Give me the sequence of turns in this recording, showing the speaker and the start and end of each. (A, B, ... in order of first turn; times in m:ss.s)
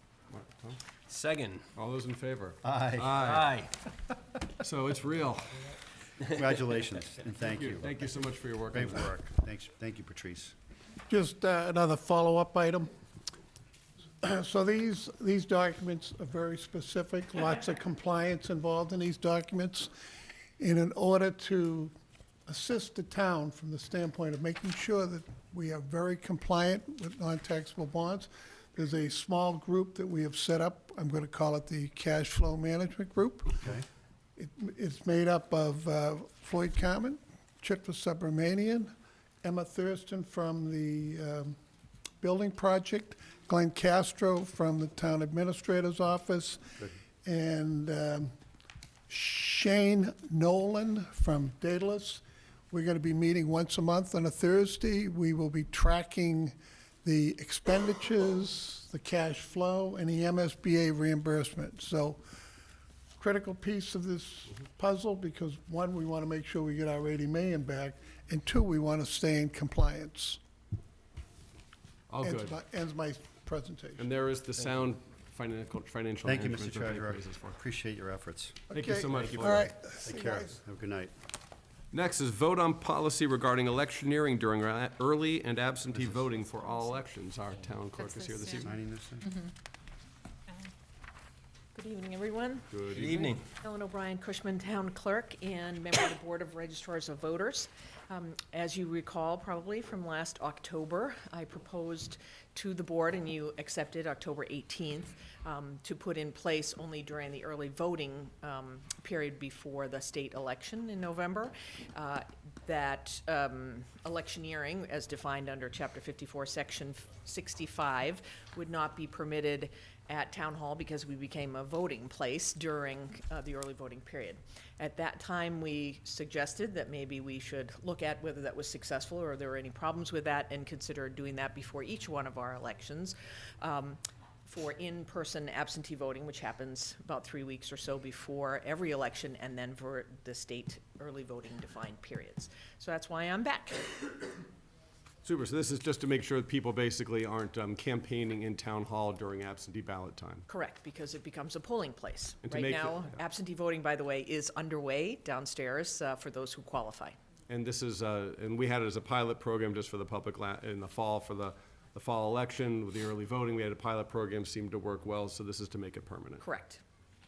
0:00.3-0:00.8 A
0:01.1-0:01.7 B
0:01.7-0:03.5 A
0:02.6-0:03.3 C
0:03.2-0:03.8 B
0:04.6-0:05.7 A
0:06.3-0:08.0 C
0:07.5-0:09.1 A
0:08.7-0:10.5 C
0:11.1-0:12.9 D
0:14.2-0:19.9 D
0:20.6-0:21.9 D
0:22.5-0:33.8 D
0:34.4-0:41.6 D
0:42.2-0:48.3 D
0:49.1-1:02.2 D
1:03.2-1:10.4 D
1:12.1-1:12.6 A
1:12.2-1:14.1 D
1:14.0-1:17.6 A
1:16.2-1:18.6 C
1:18.7-1:20.5 D
1:18.7-1:19.7 A
1:19.2-1:19.6 B
1:20.0-1:21.1 C
1:21.9-1:28.7 A
1:28.6-1:29.3 C
1:31.7-2:24.4 E
1:32.7-1:33.1 A
1:32.9-1:33.4 B
2:25.2-2:30.4 A
2:30.5-2:37.2 E
2:32.4-2:33.2 A
2:37.5-2:46.4 A
2:46.4-2:46.8 E